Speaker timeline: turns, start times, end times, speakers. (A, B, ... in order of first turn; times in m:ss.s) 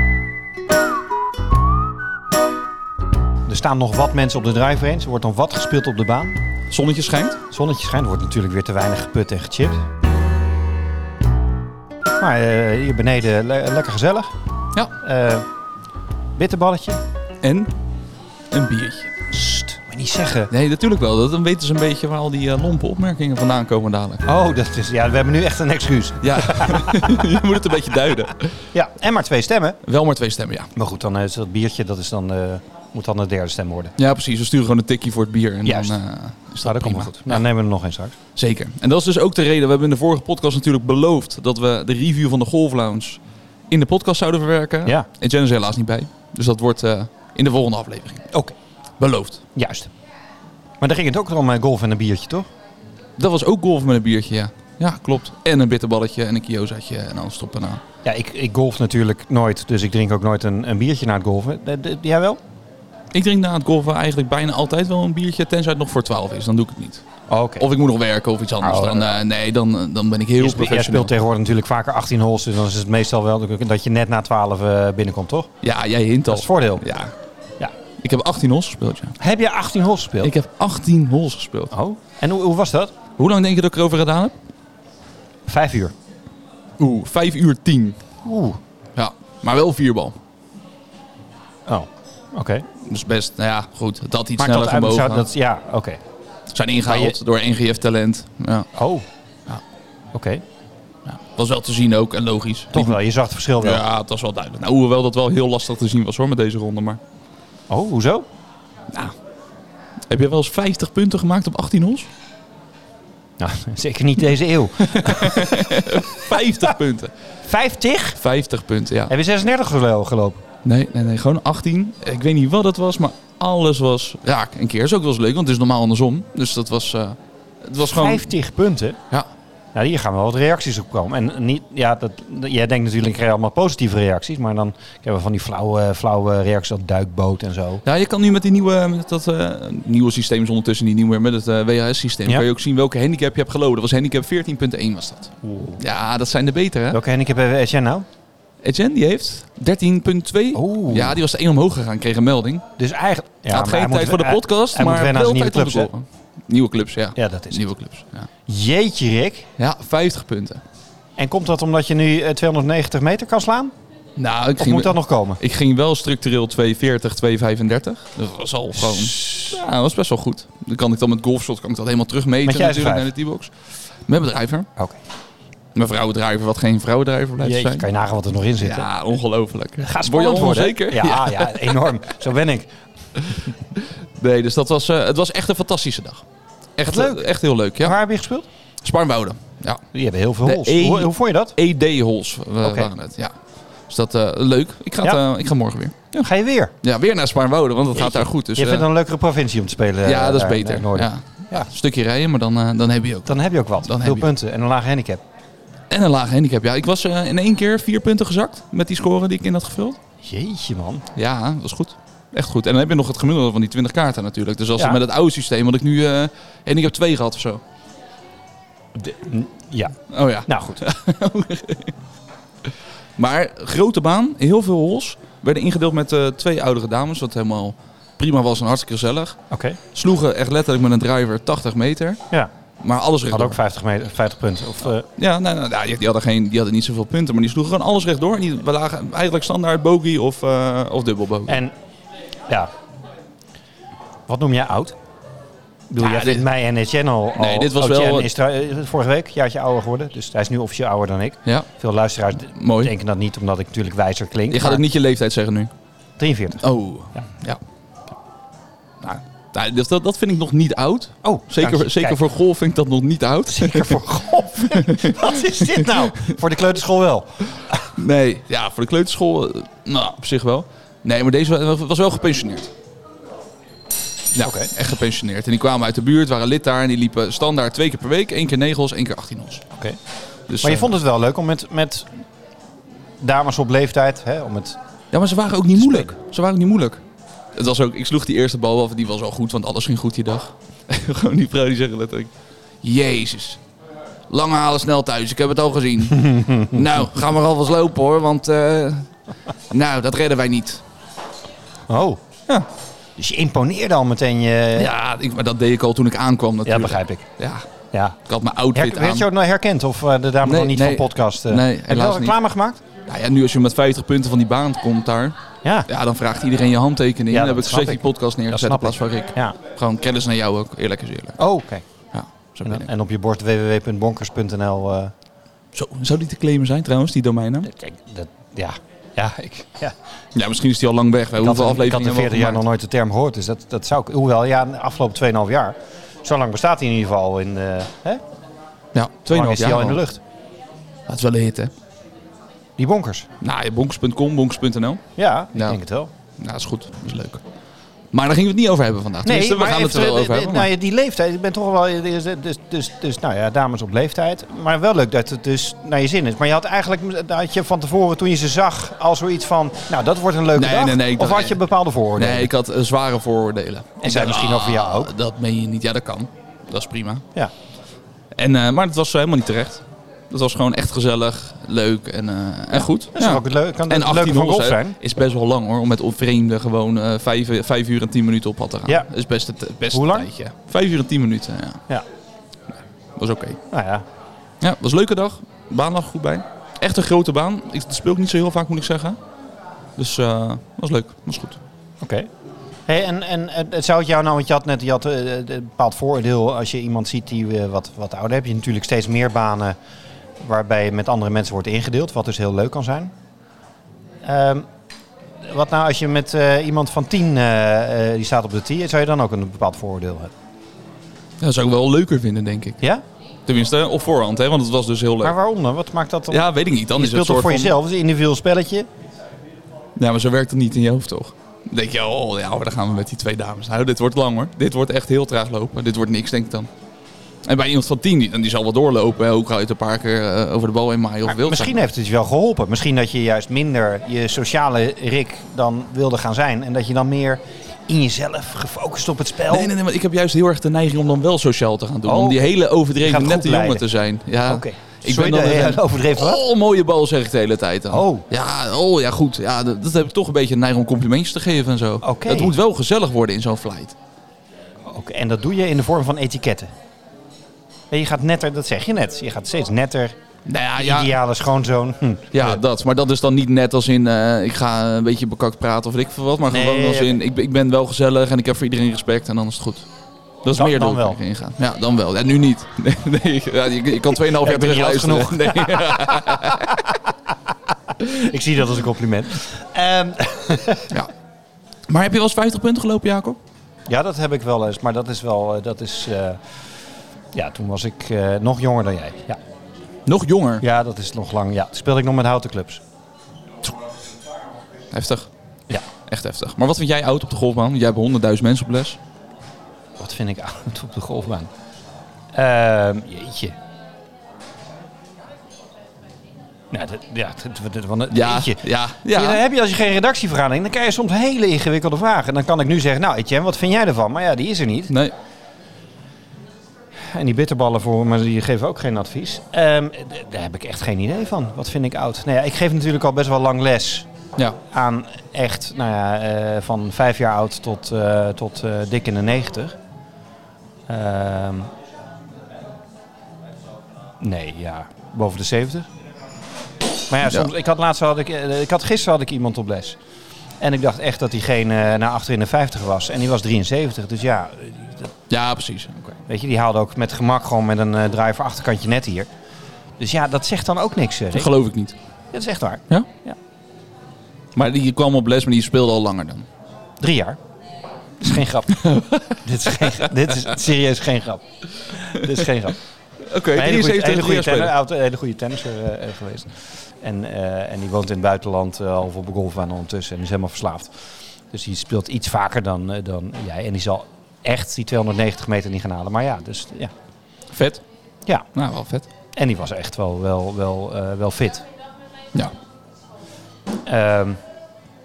0:03.4-0:06.4 A
0:06.7-0:07.4 B
0:07.5-0:09.8 A
0:12.2-0:14.3 A
0:15.0-0:15.5 A
0:16.4-0:17.0 A
0:17.4-0:17.7 B
0:18.5-0:19.1 B
0:19.3-0:20.5 A
0:20.5-0:24.2 B
0:24.2-0:27.3 A
0:26.2-0:28.7 B
0:28.7-0:29.8 A
0:29.8-0:30.7 B
0:30.8-0:33.9 A
0:34.0-0:37.4 B
0:35.6-0:36.0 A
0:36.6-0:38.2 A
0:38.3-0:43.2 B
0:43.7-0:48.3 B
0:49.0-0:49.4 B
0:49.5-0:49.9 A
0:50.8-0:52.5 A
0:53.2-0:57.8 B
0:58.0-1:02.4 A
1:03.1-1:07.0 B
1:07.3-1:07.7 A
1:07.6-1:11.1 B
1:08.6-1:09.2 A
1:10.4-1:15.5 A
1:15.6-1:17.1 B
1:16.3-1:16.8 A
1:18.0-1:19.2 B
1:19.2-1:20.3 A
1:20.2-1:21.7 B
1:21.7-1:22.9 A
1:23.2-1:24.3 B
1:25.4-1:25.9 A
1:26.8-1:28.0 B
1:28.2-1:28.6 A
1:29.0-1:30.2 B
1:31.7-1:32.6 A
1:32.8-1:35.3 B
1:34.4-1:36.0 A
1:36.5-1:38.7 B
1:36.8-1:37.2 A
1:38.7-1:39.0 A
1:40.1-1:40.4 A
1:41.1-1:43.0 B
1:42.7-1:43.8 A
1:43.6-1:47.0 B
1:47.7-1:48.3 A
1:50.1-1:52.1 B
1:53.4-1:56.7 A
1:54.8-1:57.1 B
1:57.4-1:58.2 A
1:58.2-1:59.1 B
1:59.1-2:00.4 A
2:00.6-2:08.3 B
2:07.8-2:09.0 A
2:09.7-2:17.8 A
2:17.8-2:27.0 B
2:25.4-2:25.8 A
2:26.9-2:28.0 A
2:28.6-2:32.6 B
2:30.5-2:31.2 A
2:32.8-2:35.9 A
2:33.5-2:38.3 B
2:37.2-2:37.7 A
2:38.5-2:39.5 A
2:39.6-2:40.6 B
2:41.2-2:43.7 A
2:44.2-2:53.5 B
2:44.6-2:45.4 A
2:48.7-2:49.5 A
2:52.4-2:53.1 A
2:54.1-2:54.7 B
2:55.7-2:57.8 B
2:57.4-2:58.9 A
2:58.6-3:01.9 B
2:59.8-3:02.7 A
3:03.2-3:06.2 B
3:06.8-3:08.0 B
3:06.8-3:07.3 A
3:07.8-3:08.5 A
3:08.8-3:09.8 B
3:09.9-3:11.5 A
3:10.4-3:13.3 B
3:12.6-3:12.9 A
3:13.9-3:16.0 B
3:16.1-3:16.7 A
3:16.8-3:18.8 B
3:17.9-3:21.7 A
3:20.0-3:24.3 B
3:23.2-3:25.2 A
3:25.9-3:30.0 B
3:30.2-3:31.0 A
3:31.1-3:37.6 B
3:39.0-3:40.0 A
3:40.1-3:41.9 B
3:40.5-3:40.8 A
3:43.2-3:49.4 B
3:49.5-3:49.8 A
3:49.9-3:52.2 B
3:52.8-3:53.6 B
3:53.3-3:55.0 A
3:55.2-4:01.6 B
4:01.5-4:01.7 A
4:04.3-4:05.0 A
4:05.9-4:14.8 A
4:06.0-4:06.4 B
4:07.4-4:08.3 B
4:12.5-4:12.9 B
4:14.5-4:15.7 B
4:16.2-4:16.6 A
4:16.6-4:17.6 B
4:19.0-4:26.3 B
4:21.2-4:22.2 A
4:23.5-4:27.9 A
4:27.9-4:32.7 B
4:34.3-4:39.6 B
4:34.4-4:34.7 A
4:40.5-4:40.9 B
4:40.6-4:42.1 A
4:43.2-4:44.8 A
4:45.1-4:47.0 B
4:45.8-4:46.1 A
4:47.6-4:52.3 B
4:52.8-4:53.6 B
4:54.3-4:59.1 B
4:56.1-4:56.8 A
4:59.7-5:00.8 B
5:01.9-5:02.2 A
5:03.2-5:04.9 A
5:04.8-5:07.6 B
5:06.6-5:07.2 A
5:07.9-5:08.2 A
5:08.2-5:09.2 B
5:08.7-5:12.8 A
5:10.4-5:12.3 B
5:13.0-5:15.4 B
5:15.9-5:21.4 B
5:17.3-5:19.6 A
5:21.4-5:21.8 A
5:22.1-5:22.9 B
5:22.6-5:25.1 A
5:25.7-5:27.7 B
5:27.6-5:29.9 A
5:30.3-5:32.6 B
5:31.4-5:38.2 A
5:38.9-5:40.0 B
5:39.3-5:40.2 A
5:41.1-5:41.7 B
5:42.8-5:43.3 A
5:43.4-5:45.0 B
5:45.2-5:46.1 A
5:46.4-5:47.4 B
5:48.1-5:50.7 B
5:49.2-6:02.5 A
6:00.5-6:01.6 B
6:02.2-6:07.2 B
6:04.0-6:05.1 A
6:08.4-6:21.8 B
6:12.7-6:15.0 A
6:19.9-6:20.3 A
6:23.2-6:23.6 B
6:23.7-6:24.0 A
6:24.6-6:29.2 B
6:30.0-6:31.6 B
6:32.0-6:32.3 A
6:32.9-6:39.8 A
6:40.4-6:43.1 A
6:44.2-6:44.7 A
6:45.4-6:50.3 A
6:51.4-6:52.8 B
6:53.5-6:55.4 B
6:55.2-6:58.9 A
6:56.3-6:57.8 B
7:00.0-7:06.7 B
7:07.4-7:11.8 B
7:11.2-7:19.7 A
7:19.5-7:34.0 B
7:22.0-7:22.4 A
7:23.0-7:23.8 A
7:24.4-7:26.4 A
7:27.9-7:28.2 A
7:32.0-7:32.5 A
7:34.8-7:36.7 A
7:37.9-7:40.2 A
7:40.4-7:41.1 B
7:40.8-7:42.6 A
7:42.3-7:49.9 B
7:46.5-7:47.2 A
7:50.4-7:56.8 B
7:50.5-7:51.2 A
7:54.1-7:57.3 A
7:58.0-8:01.0 A
8:01.9-8:03.4 B
8:03.9-8:06.4 A
8:07.3-8:09.4 A
8:10.0-8:10.6 B
8:10.6-8:12.8 A
8:14.9-8:15.3 B
8:16.0-8:19.0 B
8:20.0-8:21.5 A
8:22.3-8:23.6 A
8:26.7-8:34.9 A
8:28.1-8:29.4 B
8:37.0-8:44.1 A
8:44.6-8:49.8 A
8:50.9-8:51.7 A
8:54.2-8:55.9 A
8:57.1-9:00.0 A
9:00.6-9:05.1 A
9:05.3-9:06.2 B
9:06.2-9:09.3 A
9:10.0-9:11.5 A
9:11.3-9:12.0 B
9:12.3-9:13.4 A
9:14.6-9:16.5 B
9:17.0-9:17.4 A
9:18.2-9:22.8 A
9:18.7-9:20.1 B
9:23.2-9:24.7 B
9:23.5-9:30.9 A
9:31.5-9:36.9 A
9:37.5-9:37.8 B
9:38.5-9:39.1 B
9:39.3-9:41.6 A
9:43.8-9:44.4 A